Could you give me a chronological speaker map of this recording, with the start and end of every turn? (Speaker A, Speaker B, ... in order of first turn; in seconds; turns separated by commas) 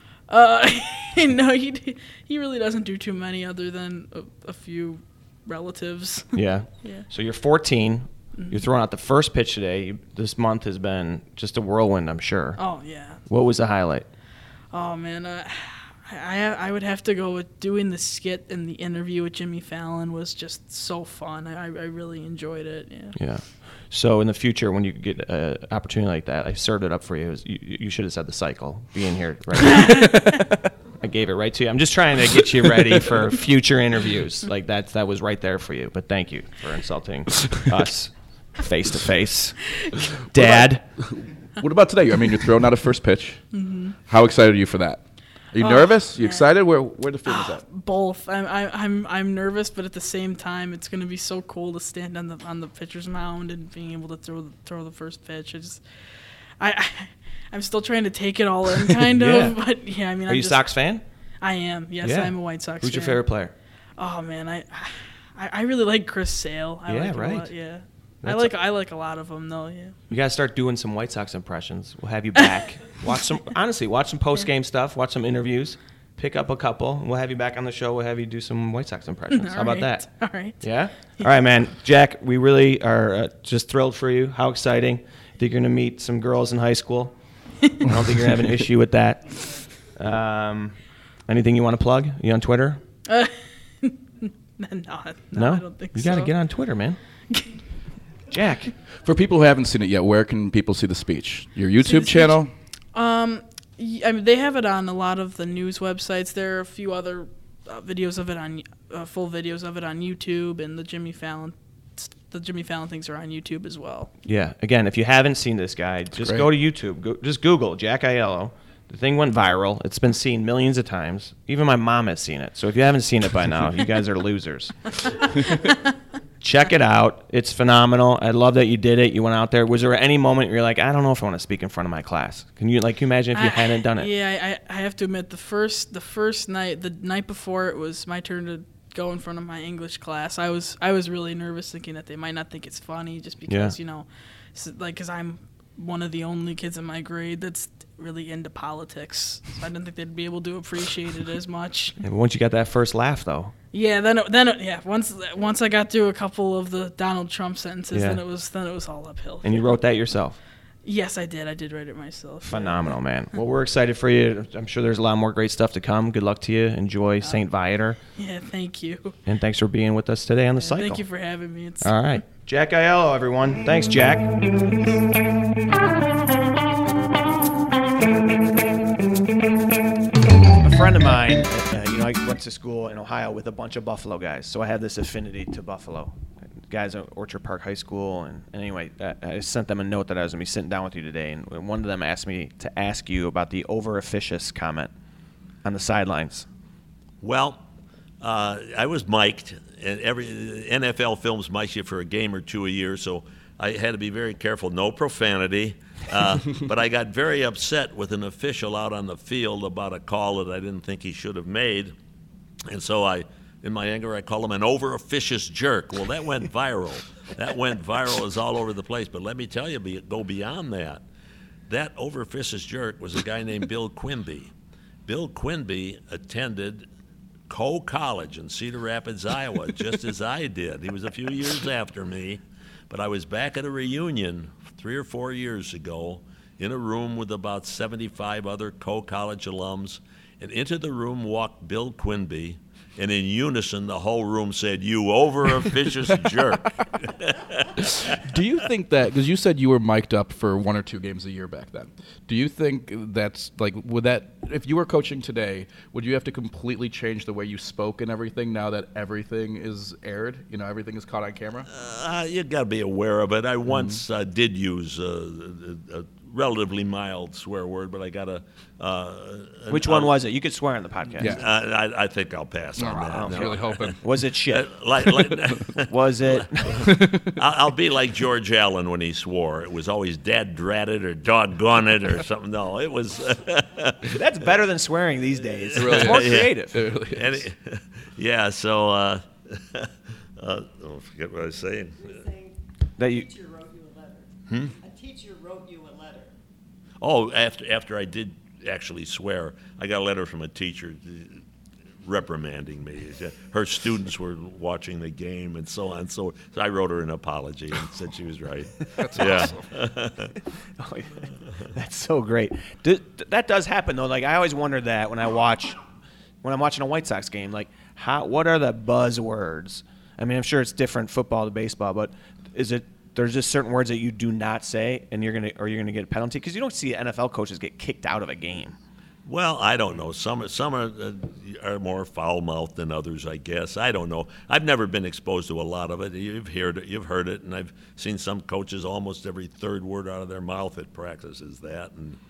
Speaker A: 0.3-6.3, Speaker B: 6.3-12.6, Speaker A: 12.6-13.2, Speaker B: 13.3-14.1, Speaker A: 14.7-23.1, Speaker B: 23.2-30.4, Speaker A: 29.6-30.4, Speaker B: 31.0-39.6, Speaker B: 40.3-40.9, Speaker C: 40.4-43.4, Speaker A: 43.5-44.0, Speaker C: 44.1-45.0, Speaker C: 45.5-47.6, Speaker A: 45.6-46.5, Speaker A: 47.3-55.8, Speaker A: 56.6-60.7, Speaker B: 59.1-59.6, Speaker B: 60.3-61.0, Speaker A: 61.4-63.2, Speaker B: 62.0-63.5, Speaker A: 64.0-70.0, Speaker B: 66.9-67.5, Speaker B: 68.2-68.5, Speaker B: 70.1-80.0, Speaker A: 79.3-80.6, Speaker B: 80.6-87.2, Speaker B: 87.8-89.4, Speaker B: 90.0-90.8, Speaker B: 91.3-92.8, Speaker A: 93.1-96.3, Speaker B: 95.3-97.0, Speaker A: 97.3-97.6, Speaker B: 98.3-98.7, Speaker C: 99.0-102.5, Speaker A: 101.8-102.4, Speaker A: 102.9-114.1, Speaker B: 114.3-124.9, Speaker C: 116.2-116.5, Speaker B: 126.4-134.1, Speaker A: 133.3-152.0, Speaker B: 143.5-143.8, Speaker B: 152.0-153.5, Speaker A: 153.7-159.8, Speaker B: 157.9-158.2, Speaker B: 159.4-160.4, Speaker A: 160.8-162.9, Speaker B: 162.4-168.0, Speaker A: 168.2-169.1, Speaker B: 169.3-171.0, Speaker A: 170.6-172.2, Speaker B: 171.8-174.3, Speaker B: 180.4-186.2, Speaker B: 186.7-194.9, Speaker B: 195.6-196.5, Speaker D: 197.2-197.6, Speaker D: 198.2-211.9, Speaker D: 212.7-221.0, Speaker D: 221.7-224.5, Speaker D: 225.1-226.9, Speaker D: 227.5-247.7, Speaker C: 247.8-261.7, Speaker D: 261.7-270.1, Speaker C: 263.7-264.0, Speaker B: 269.7-271.4, Speaker C: 271.2-271.4, Speaker D: 271.2-274.0, Speaker C: 272.8-274.0, Speaker B: 273.1-274.7, Speaker D: 274.5-276.3, Speaker C: 275.2-275.5, Speaker B: 275.9-276.8, Speaker C: 276.8-277.3, Speaker D: 276.8-284.2, Speaker B: 284.1-286.7, Speaker D: 285.8-292.4, Speaker C: 285.8-287.4, Speaker B: 293.0-293.4, Speaker E: 293.5-294.2, Speaker D: 294.5-294.9, Speaker E: 295.0-296.2, Speaker D: 297.0-301.4, Speaker D: 302.0-310.3, Speaker C: 309.0-309.6, Speaker B: 310.8-315.8, Speaker B: 316.4-328.8, Speaker D: 329.2-342.2